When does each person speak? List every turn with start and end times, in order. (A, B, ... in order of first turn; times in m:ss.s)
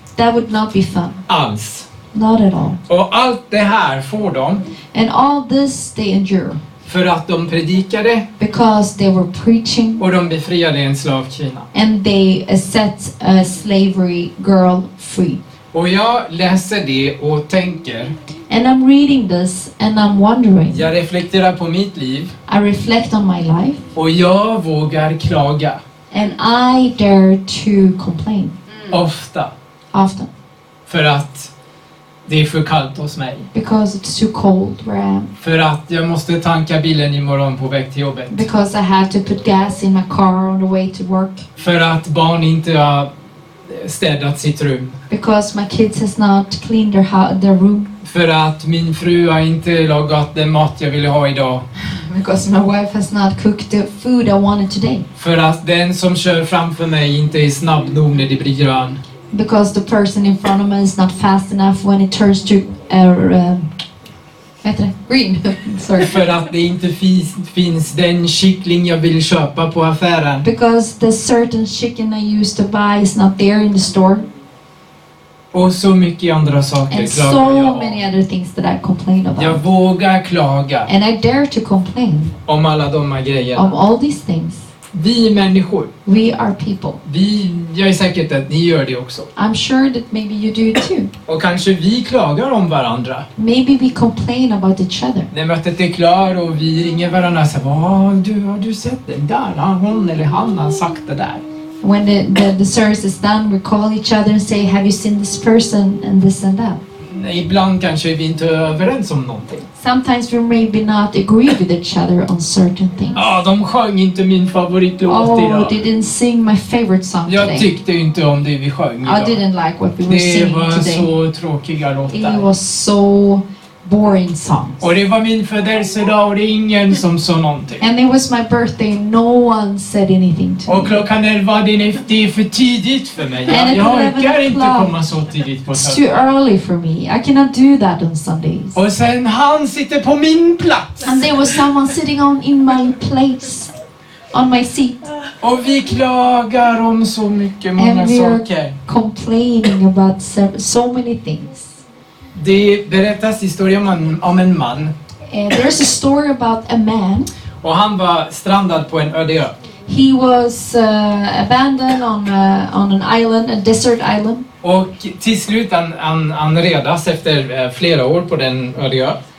0:00.2-0:01.2 A
0:01.3-0:01.9 B
0:02.1-0:02.8 A
0:02.9-0:04.7 B
0:04.9-0:06.6 A
0:06.8-0:08.3 B
0:08.4-0:10.0 A
0:10.0-0:11.7 B
0:11.7-0:15.4 A
0:15.7-0:18.1 B
0:18.5-0:20.8 A
0:20.7-0:22.3 B
0:22.5-0:23.8 A
0:23.9-0:25.8 B
0:26.1-0:28.6 A
0:28.9-0:29.5 B
0:29.9-0:30.3 A
0:30.9-0:31.5 B
0:32.2-0:33.5 B
0:33.5-0:35.3 A
0:35.4-0:38.5 B
0:38.3-0:41.4 A
0:41.6-0:43.1 B
0:43.6-0:45.0 B
0:45.1-0:47.9 A
0:48.0-0:51.6 B
0:51.8-0:55.0 A
0:55.2-0:59.0 B
0:59.3-1:03.7 A
1:04.6-1:06.2 A
1:06.0-1:10.4 B
1:10.4-1:14.2 A
1:15.5-1:18.0 B
1:16.9-1:19.6 A
1:19.4-1:20.9 B
1:20.8-1:22.4 A
1:22.4-1:23.8 B
1:23.5-1:24.7 A
1:24.9-1:25.9 B
1:26.0-1:27.0 A
1:27.0-1:29.3 B
1:29.4-1:31.1 A
1:31.3-1:33.3 B
1:33.4-1:35.3 A
1:35.3-1:41.4 B
1:41.8-1:46.8 A
1:47.1-1:49.7 B
1:49.8-1:53.2 A
1:53.1-1:55.7 B
1:55.1-1:57.7 A
1:57.2-1:59.4 B
1:59.0-2:01.1 A
2:00.0-2:02.5 B
2:02.1-2:04.8 A
2:04.8-2:07.8 B
2:07.8-2:11.0 A
2:10.7-2:16.1 B
2:13.5-2:14.9 A
2:15.7-2:18.8 A
2:18.7-2:21.2 B
2:21.0-2:23.7 A
2:24.3-2:25.0 A
2:25.4-2:28.8 B
2:27.8-2:31.8 A
2:32.3-2:34.9 B
2:35.3-2:37.3 A
2:37.6-2:39.5 B
2:39.8-2:44.4 A
2:44.6-2:49.2 B